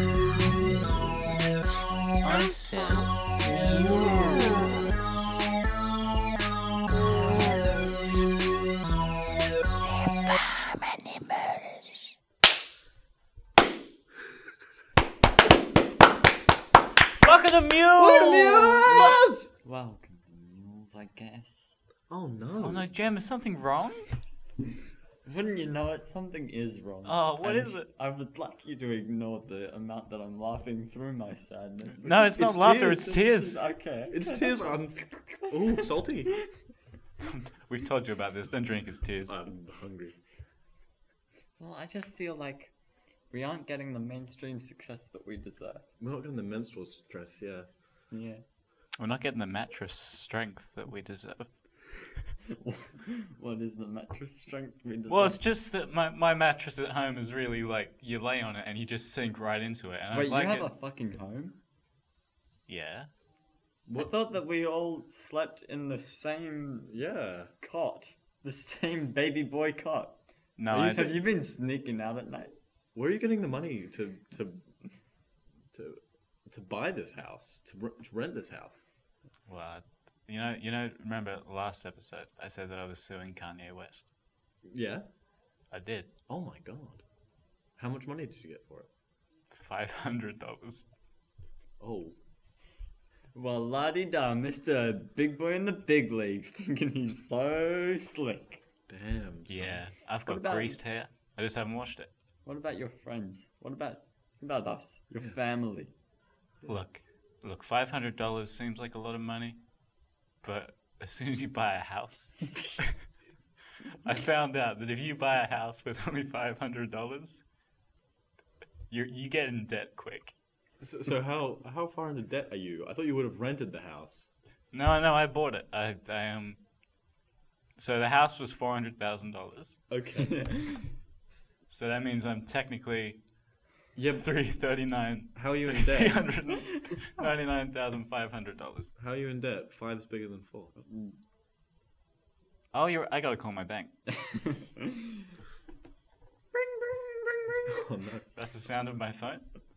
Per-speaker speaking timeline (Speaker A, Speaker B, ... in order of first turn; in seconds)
Speaker A: 2.2-5.3, 7.0-7.7, 9.9-11.8, 17.2-19.1, 22.6-24.1, 27.1-27.9, 32.0-33.7, 37.2-39.4, 49.0-51.5, 55.1-60.7, 62.7-63.1, 70.6-71.1, 79.5-84.1, 85.7-86.1, 89.5-90.9, 99.5-102.1, 106.7-109.6, 110.4-113.0, 114.0-117.4, 118.9-120.3, 124.7-126.6, 127.8-129.8, 131.7-133.2, 134.0-138.9, 142.7-143.9, 148.4-149.4
Speaker B: 18.0-19.5, 22.1-22.9, 32.4-33.3, 34.1-36.3, 39.3-40.1, 46.0-47.7, 66.9-67.5, 70.7-71.1, 73.0-74.6, 75.7-78.9, 84.7-85.0, 86.3-87.0, 87.8-88.9, 91.8-92.2, 98.9-99.8, 120.8-124.3, 129.9-130.5, 134.0-134.3, 135.3-136.3, 139.0-140.7, 147.7-148.2
Speaker C: 19.6-21.7, 25.3-32.5, 33.2-36.3, 41.6-42.7, 43.3-45.9, 48.1-48.4, 52.6-55.4, 60.1-61.5, 64.0-66.9, 67.6-70.2, 70.7-72.5, 93.3-98.6, 100.3-100.8, 102.5-105.9, 130.2-130.9, 140.9-141.1, 144.2-144.9, 146.5-147.8